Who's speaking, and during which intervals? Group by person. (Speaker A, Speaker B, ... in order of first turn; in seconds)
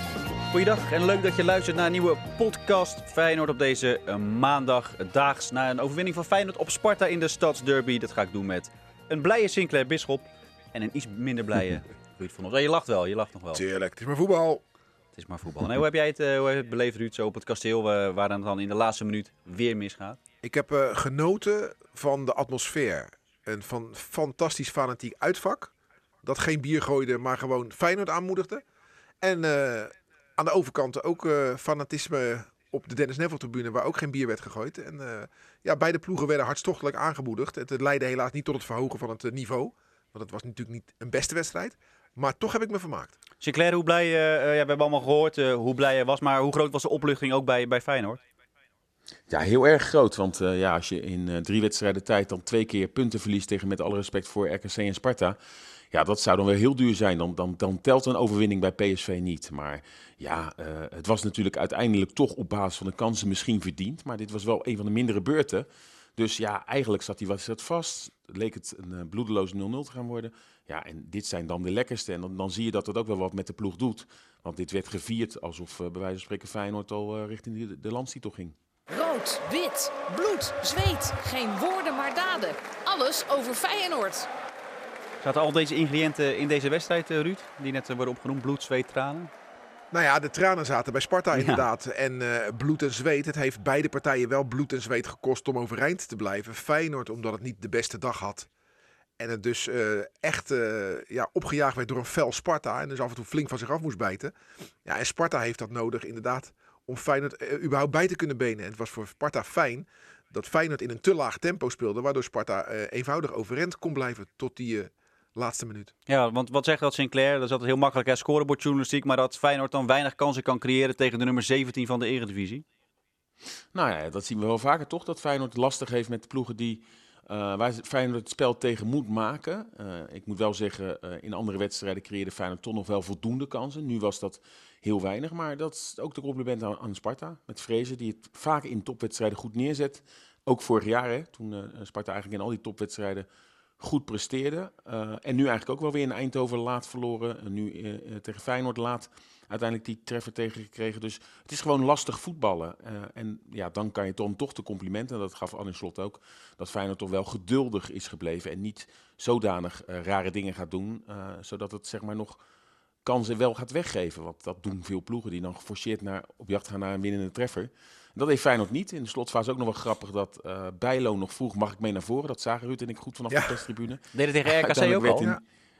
Speaker A: 0.5-13.6, 15.1-20.2, 43.4-48.2, 85.2-89.3, 91.3-91.7, 116.1-122.6, 174.1-175.3
Speaker B: 13.5-14.6, 20.4-25.7, 26.2-28.6, 29.2-43.1, 89.9-98.5, 99.2-104.3, 104.8-115.9, 173.3-173.6
Speaker C: 49.3-55.4, 55.9-78.5, 123.7-143.3, 143.8-162.4, 163.0-175.3
Speaker D: 78.9-84.3